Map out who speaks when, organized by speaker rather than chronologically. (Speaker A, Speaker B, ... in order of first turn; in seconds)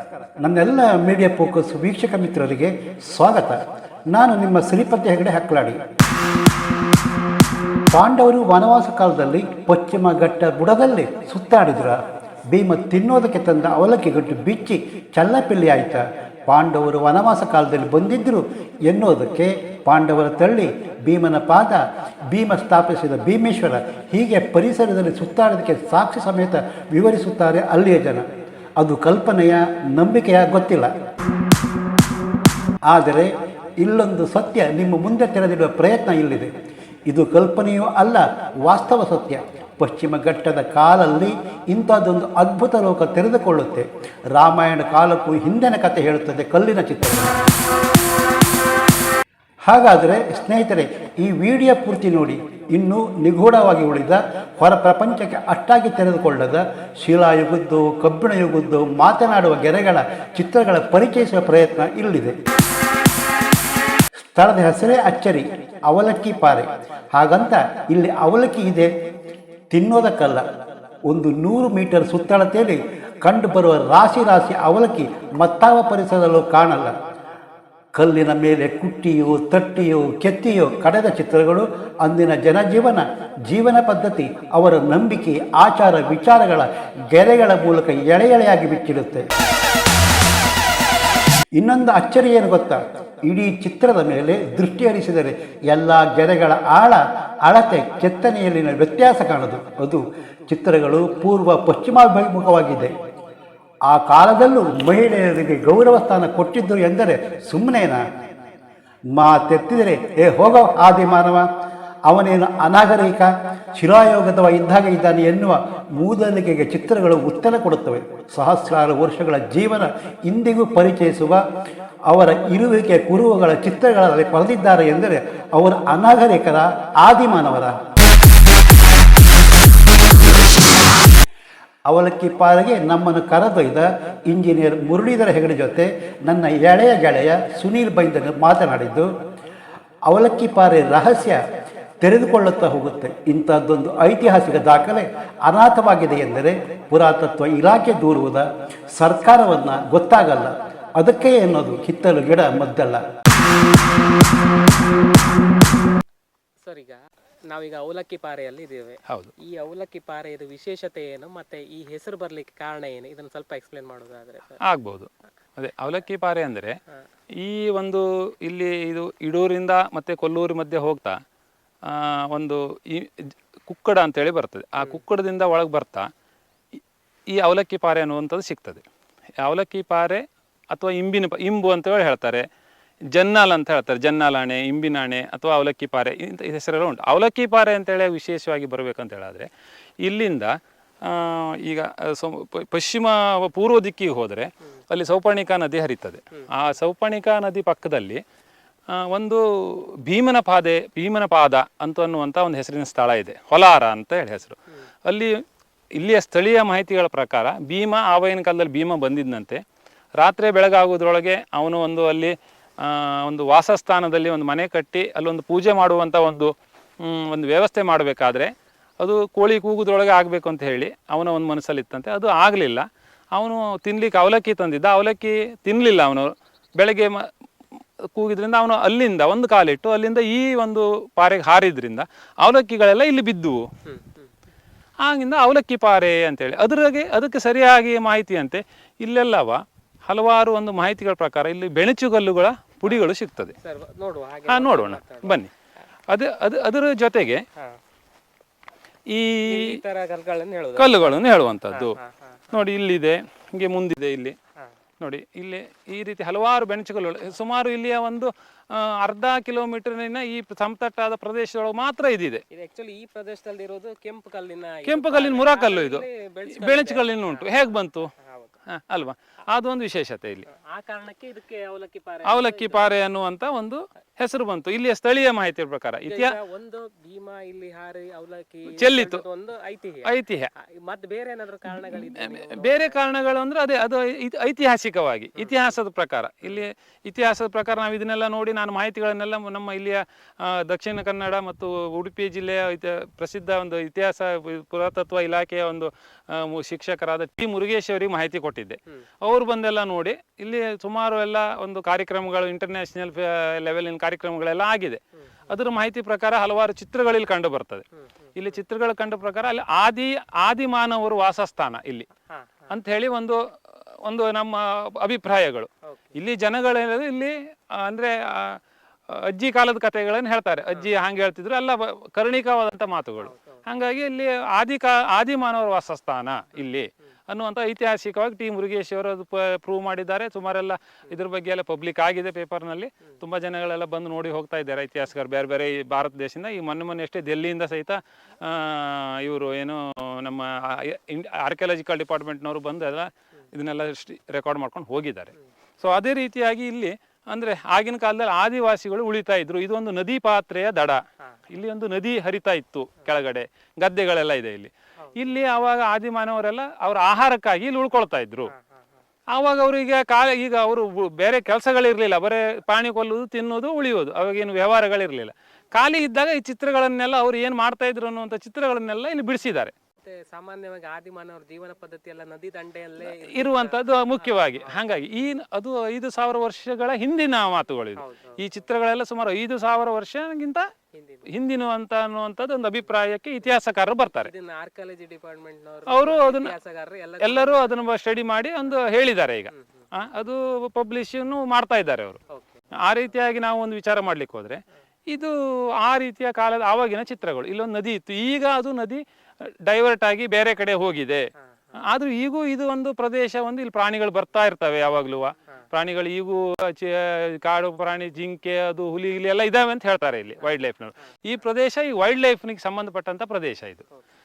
Speaker A: 0.4-5.8, 7.9-28.2, 28.8-30.9, 32.9-36.5, 37.1-47.4, 49.6-62.3, 64.3-68.9, 69.7-70.4, 71.0-76.9, 77.9-89.3, 91.5-102.9, 103.9-108.0, 109.1-111.5, 112.1-121.4, 122.1-127.8, 131.9-139.1, 140.1-141.4, 142.0-153.0
Speaker B: 156.7-164.6, 233.8-234.3, 242.8-245.4, 249.4-251.0, 251.7-252.5, 262.5-268.6, 270.5-272.9, 276.0-283.0, 285.4-285.7, 307.9-308.6, 312.3-312.7, 315.9-316.1, 323.2-323.6, 355.0-355.3, 358.5-358.8, 370.0-375.4, 378.0-378.4, 380.9-381.3, 384.1-387.9, 389.5-389.8, 392.3-392.6
Speaker C: 164.7-166.8, 167.4-171.2, 171.8-176.1, 177.3-178.8, 179.4-182.4, 183.1-189.5, 190.0-198.2, 198.9-205.4, 205.9-209.6, 210.2-227.3, 228.1-233.7, 235.0-243.5, 244.5-245.5, 246.1-247.4, 249.1-249.8, 250.8-252.0, 252.5-254.3, 255.0-262.4, 264.8-268.1, 268.7-270.4, 272.2-276.3, 278.7-279.2, 280.1-280.5, 281.7-307.8, 308.4-312.1, 312.7-313.4, 314.0-358.5, 359.3-369.7, 373.0-380.7, 381.3-384.3, 385.9-386.5, 387.2-392.2, 392.8-401.3, 401.8-413.8